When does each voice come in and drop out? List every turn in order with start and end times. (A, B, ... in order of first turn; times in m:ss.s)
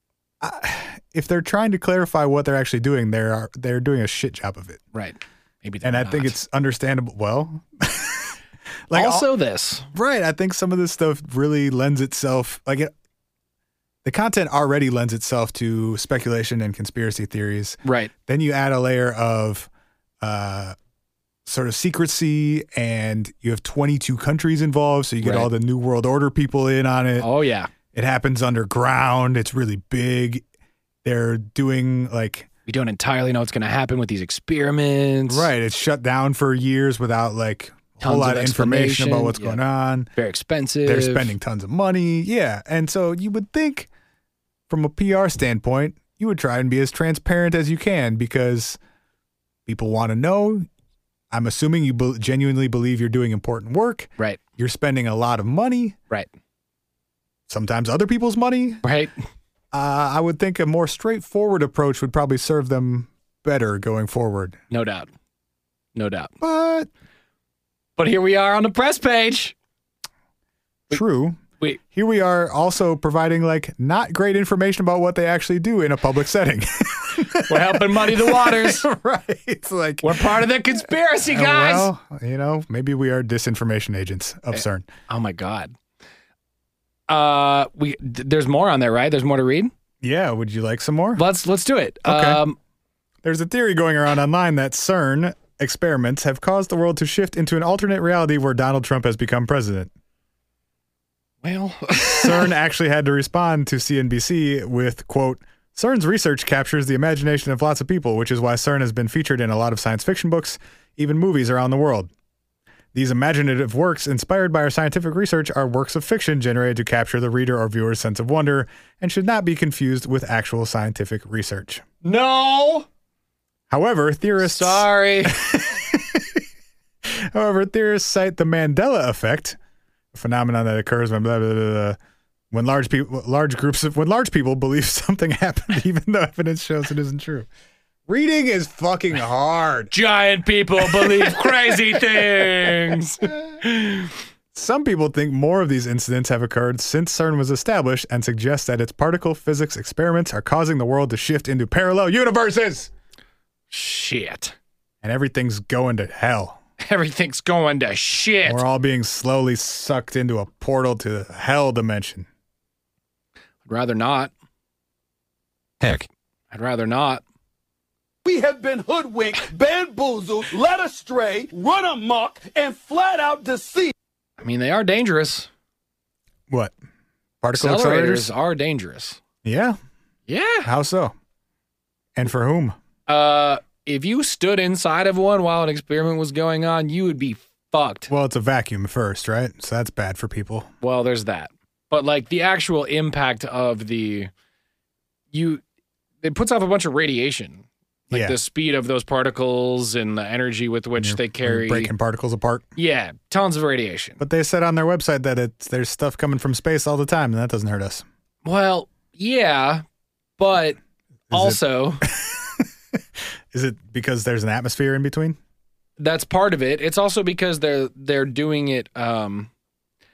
0:00.4-0:04.8 A
0:04.9-0:06.4 B
0:05.8-0:08.4 A
0:08.9-0:09.3 A
0:08.9-0:09.9 B
0:09.9-0:12.9 A
0:14.0-0:19.7 A
0:17.8-0:18.1 B
0:20.2-0:20.8 A
0:21.5-0:27.3 A
0:25.2-0:25.5 B
0:27.2-0:27.7 B
0:27.9-0:30.4 A
0:31.0-0:32.5 A
0:32.7-0:35.5 B
0:35.3-0:40.1 A
0:38.0-0:39.6 B
0:40.2-0:41.3 B
0:40.8-0:43.9 A
0:44.7-0:48.8 A
0:49.7-0:50.7 A
0:51.3-0:56.0 A
0:57.5-0:58.8 A
0:58.8-0:59.1 B
0:59.7-1:04.6 A
1:04.7-1:05.1 B
1:06.0-1:06.3 B
1:06.4-1:06.9 A
1:08.0-1:09.6 B
1:10.9-1:11.4 A
1:11.9-1:24.9 A
1:17.5-1:18.8 B
1:20.0-1:21.9 B
1:24.5-1:25.7 B
1:27.1-1:29.7 B
1:30.0-1:31.2 A
1:31.2-1:32.6 B
1:32.0-1:32.4 A
1:33.2-1:39.9 A
1:41.4-1:42.5 B
1:42.1-1:52.1 A
1:52.9-2:01.8 A
2:02.0-2:02.9 B
2:03.7-2:06.4 A
2:04.4-2:05.4 B
2:07.0-2:09.6 A
2:10.1-2:12.0 A
2:12.5-2:17.5 A
2:18.1-2:19.9 A
2:19.9-2:24.1 B
2:20.8-2:22.7 A
2:24.5-2:32.9 A
2:33.7-2:34.6 B
2:35.0-2:36.6 A
2:36.8-2:38.6 B
2:38.5-2:42.3 A
2:43.7-2:44.3 B
2:46.5-2:47.2 B
2:48.2-2:53.9 C
2:54.4-2:55.5 B
2:56.5-2:56.7 A
2:57.4-2:58.3 A
2:57.5-2:59.2 B
2:59.4-2:59.8 A
3:00.3-3:00.7 B
3:00.6-3:01.2 A
3:02.2-3:02.8 A
3:03.1-3:08.1 B
3:08.1-3:10.7 A
3:10.8-3:14.3 B
3:15.3-3:15.6 B
3:16.2-3:21.9 B
3:18.1-3:18.4 A
3:21.0-3:22.7 A
3:22.8-3:24.2 B
3:24.2-3:28.0 A
3:28.4-3:29.8 B
3:30.4-3:30.8 B
3:31.3-3:32.7 A
3:31.3-3:32.0 B
3:33.5-3:35.4 A
3:36.0-3:39.5 B